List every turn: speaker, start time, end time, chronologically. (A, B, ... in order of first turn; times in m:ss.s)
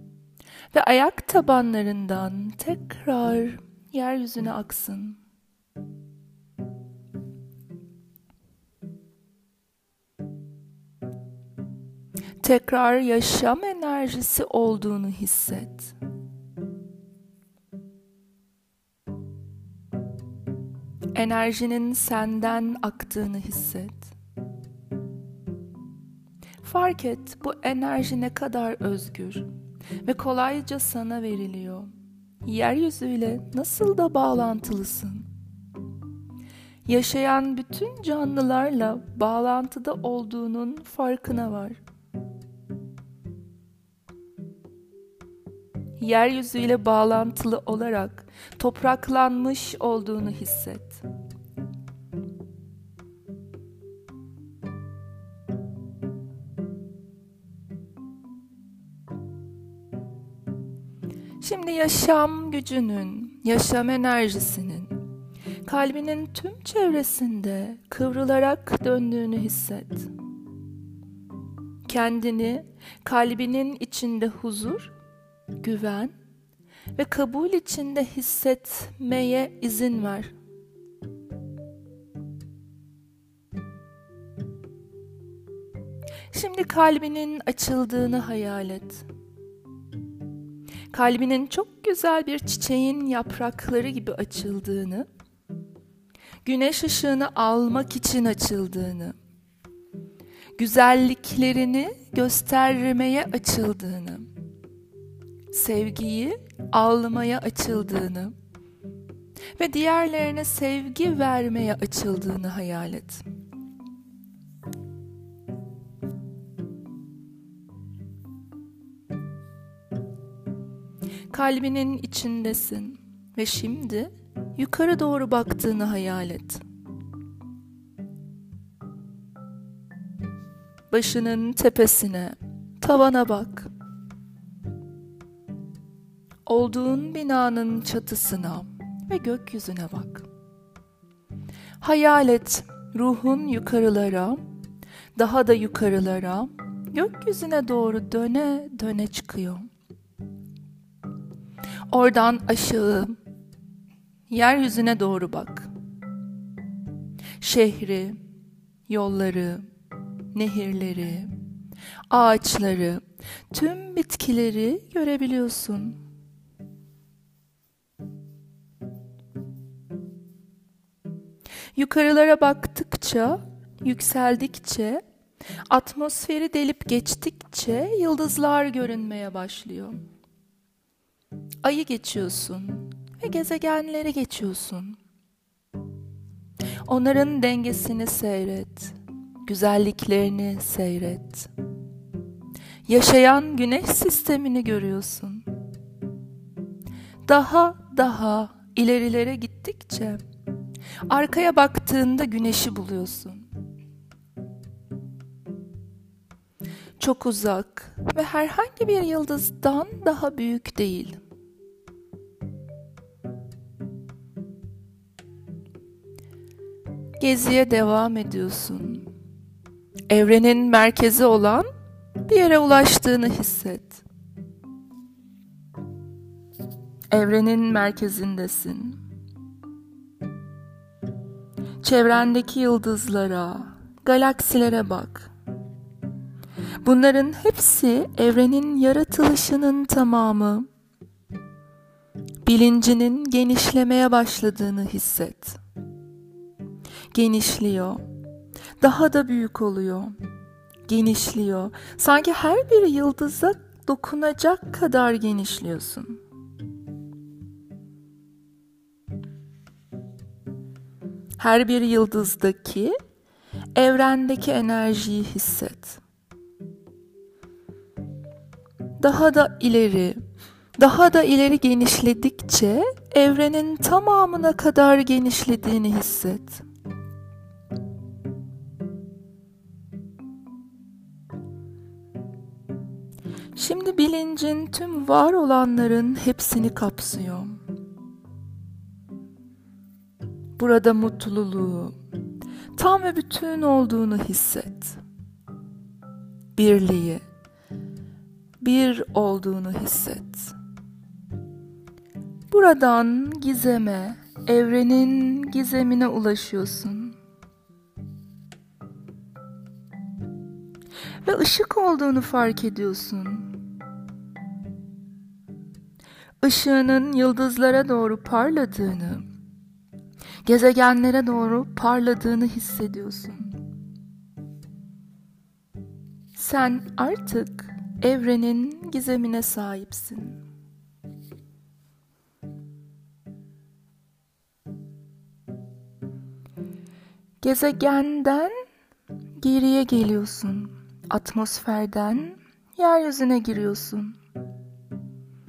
0:00.7-0:05.2 A
0:12.4-0:15.9 A
0:21.1-0:24.1 A
0:26.6-0:29.5 A
0:30.0-0:31.9 A
0:32.4-0:35.3 A
0:36.8-0:41.8 A
0:46.0-0:51.0 A
1:01.4-1:05.0 A
1:05.6-1:10.1 A
1:11.8-1:14.9 A
1:15.6-1:16.1 A
1:16.9-1:20.3 A
1:26.3-1:29.0 A
1:30.9-1:35.1 A
1:36.4-1:39.2 A
1:40.6-1:44.3 A
1:45.5-1:48.3 A
1:49.6-1:53.2 A
2:01.3-2:06.6 A
2:10.9-2:13.7 A
2:16.4-2:20.3 A
2:21.8-2:24.4 A
2:25.2-2:29.6 A
2:31.9-2:33.2 A
2:34.3-2:35.7 A
2:37.4-2:38.2 A
2:38.9-2:39.6 A
2:40.3-2:41.3 A
2:42.1-2:46.0 A
2:51.7-2:55.0 A
2:55.7-3:00.0 A
3:01.6-3:05.0 A
3:06.8-3:11.5 A
3:12.8-3:15.4 A
3:17.2-3:20.2 A
3:21.1-3:23.5 A
3:27.0-3:31.2 A
3:37.2-3:39.1 A
3:40.1-3:41.7 A
3:42.2-3:44.0 A
3:47.1-3:49.0 A
3:51.8-3:55.3 A
3:56.8-4:00.7 A
4:02.4-4:05.6 A
4:07.1-4:08.0 A
4:08.8-4:10.1 A
4:10.9-4:16.2 A
4:21.4-4:22.9 A
4:23.7-4:26.0 A
4:29.0-4:30.2 A
4:30.8-4:36.6 A
4:43.5-4:47.6 A
4:50.6-4:51.9 A
4:52.7-4:55.0 A
4:56.6-4:57.2 A
4:58.6-5:00.5 A
5:02.5-5:07.2 A
5:11.2-5:13.6 A
5:16.4-5:19.2 A
5:20.4-5:23.6 A
5:26.3-5:30.4 A
5:37.4-5:38.5 A
5:39.4-5:44.2 A